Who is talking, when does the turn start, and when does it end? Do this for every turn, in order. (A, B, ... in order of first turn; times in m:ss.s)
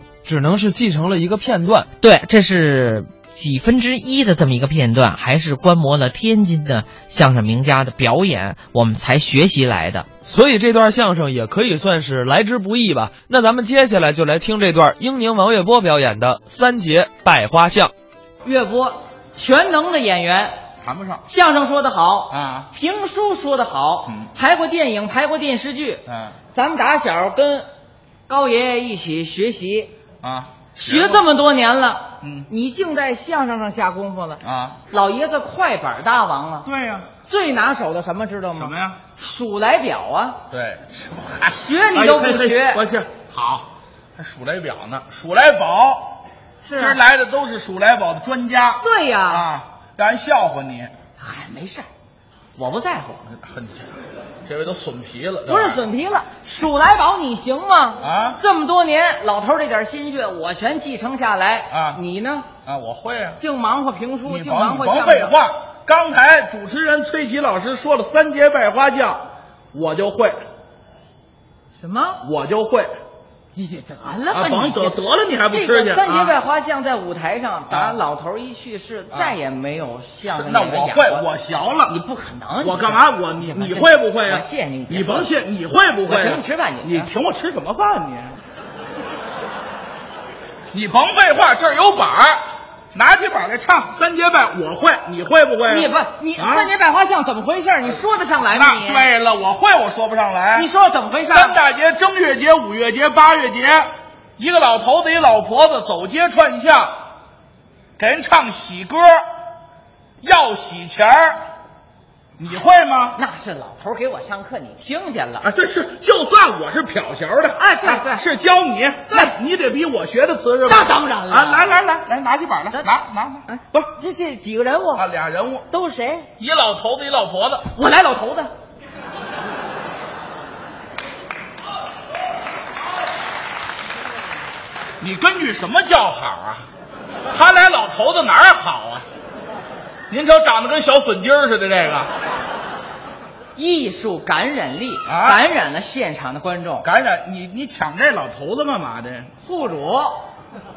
0:00.2-0:01.9 A
0:02.0-0:10.1 B
0:10.2-0:17.9 A
0:18.4-0:20.6 C
0:20.8-0:21.2 D
0:21.3-0:27.7 C
0:22.3-0:22.7 D
0:24.0-0:24.3 D
0:26.0-0:26.4 D
0:28.3-0:29.9 C
0:30.2-0:31.3 D
0:30.8-0:36.7 C
0:32.2-0:32.5 D
0:34.4-0:34.8 D
0:36.6-0:37.1 D
0:37.3-0:40.4 C
0:38.5-0:39.0 D
0:40.5-0:46.2 D
0:41.5-0:42.8 C
0:46.6-0:47.0 C
0:46.8-0:50.9 D
0:48.8-0:49.4 C
0:51.2-0:51.9 C
0:52.6-0:53.2 C
0:53.3-0:55.8 D
0:55.5-1:02.5 C
0:58.0-0:58.4 D
1:01.7-1:02.0 D
1:02.6-1:03.4 D
1:03.4-1:05.3 C
1:04.2-1:10.4 D
1:11.8-1:12.2 C
1:12.2-1:12.9 D
1:13.5-1:15.0 C
1:14.3-1:16.4 D
1:15.5-1:21.2 C
1:17.7-1:18.0 D
1:19.1-1:19.4 D
1:20.3-1:21.9 D
1:21.8-1:25.3 C
1:22.6-1:28.4 D
1:26.0-1:27.1 C
1:30.7-1:32.4 D
1:32.9-1:36.7 D
1:35.7-1:39.1 C
1:38.5-1:40.7 D
1:40.5-1:41.6 C
1:41.3-1:47.0 D
1:48.0-1:49.2 D
1:50.2-1:51.4 D
1:52.4-1:53.2 D
1:53.1-1:55.5 C
1:55.4-2:03.9 D
1:57.6-1:58.2 C
1:59.1-1:59.3 C
2:00.6-2:01.8 C
2:03.5-2:05.0 C
2:04.9-2:05.7 D
2:05.7-2:06.3 C
2:06.4-2:07.7 D
2:07.7-2:08.5 C
2:15.0-2:16.6 D
2:17.3-2:19.0 D
2:20.1-2:22.1 D
2:23.6-2:26.9 C
2:25.0-2:25.4 D
2:26.8-2:29.3 D
2:29.4-2:30.3 C